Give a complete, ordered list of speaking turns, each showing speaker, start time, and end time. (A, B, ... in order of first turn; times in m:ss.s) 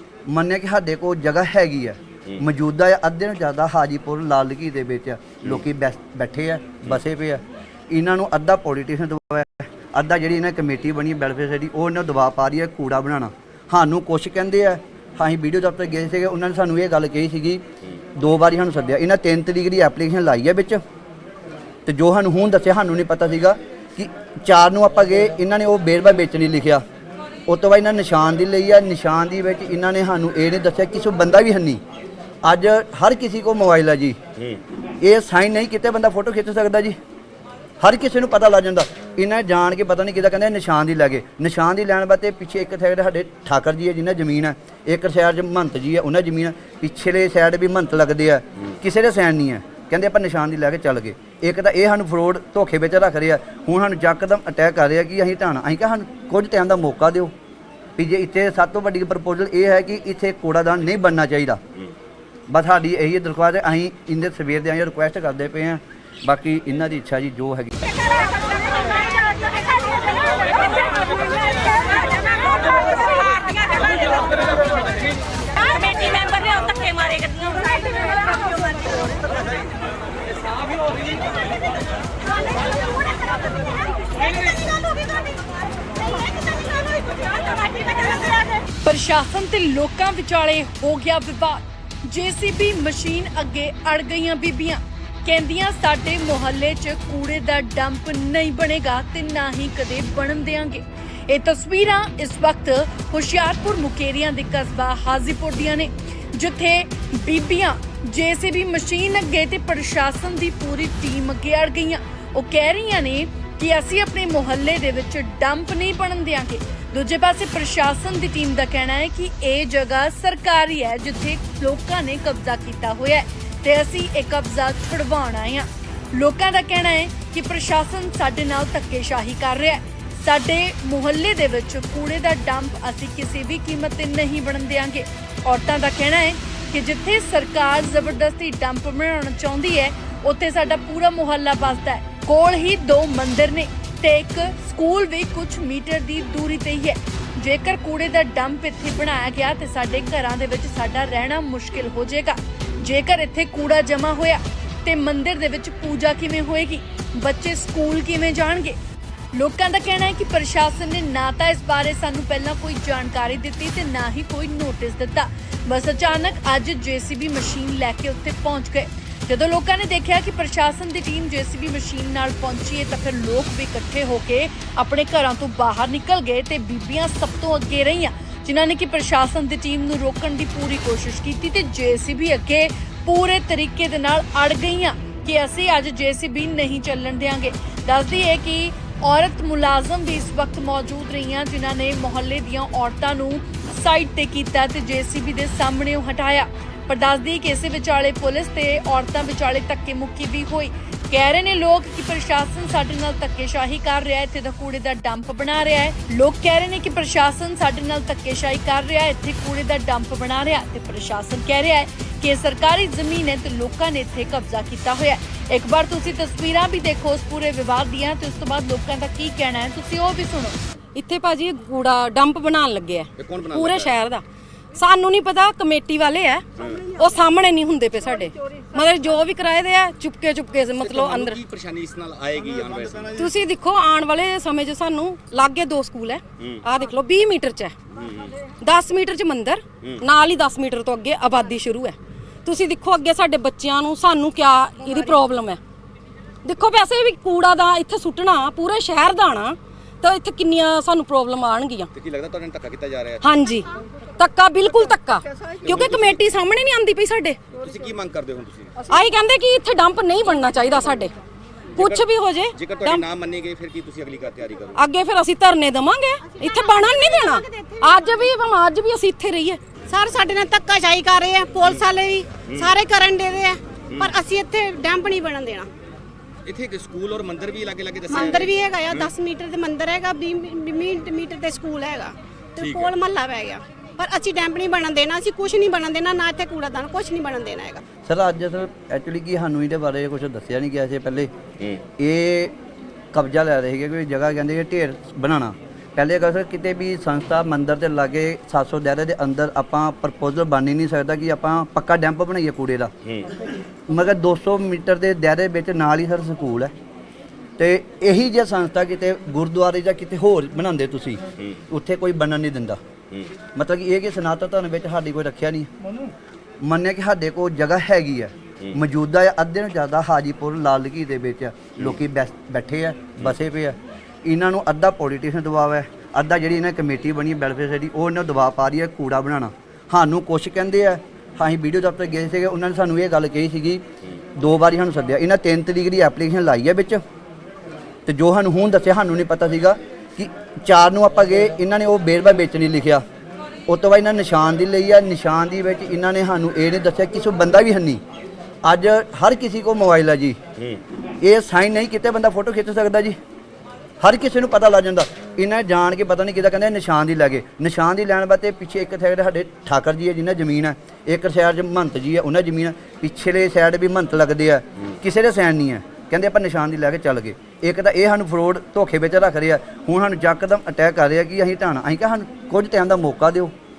0:00.3-0:17.6 A
0:18.2-0:20.8 A
0:21.9-0:26.8 A
0:27.5-0:31.8 A
0:32.4-0:34.2 A
0:35.0-0:37.0 A
0:37.8-0:57.3 A
0:58.0-1:01.6 A
1:02.5-1:07.8 A
1:15.8-1:17.6 B
1:28.8-2:38.8 C
2:39.3-3:40.6 C
3:41.0-3:44.2 B
3:43.2-3:43.9 D
3:44.8-3:51.4 B
3:46.6-3:46.9 D
3:50.8-3:53.3 D
3:53.2-3:57.8 B
3:57.9-3:58.4 D
3:58.6-4:05.6 B
4:06.4-4:11.9 B
4:11.9-4:13.3 D
4:13.2-4:17.4 B
4:15.6-4:16.2 D
4:17.6-4:18.9 D
4:18.9-4:21.1 B
4:21.8-4:23.0 B
4:21.8-4:24.8 D
4:24.8-4:29.6 B
4:29.9-4:35.7 E
4:36.5-4:39.1 D
4:38.1-4:47.8 E
4:42.6-4:42.9 D
4:48.0-4:51.3 A
4:52.0-4:52.5 A
4:53.1-5:02.9 A
5:03.9-5:06.7 A
5:07.6-5:12.8 A
5:13.6-5:15.7 A
5:16.6-5:33.8 A
5:34.4-5:37.0 A
5:38.1-5:43.0 A
5:43.7-5:48.0 A
5:48.6-5:50.4 A
5:51.2-5:53.2 A
5:54.0-6:13.5 A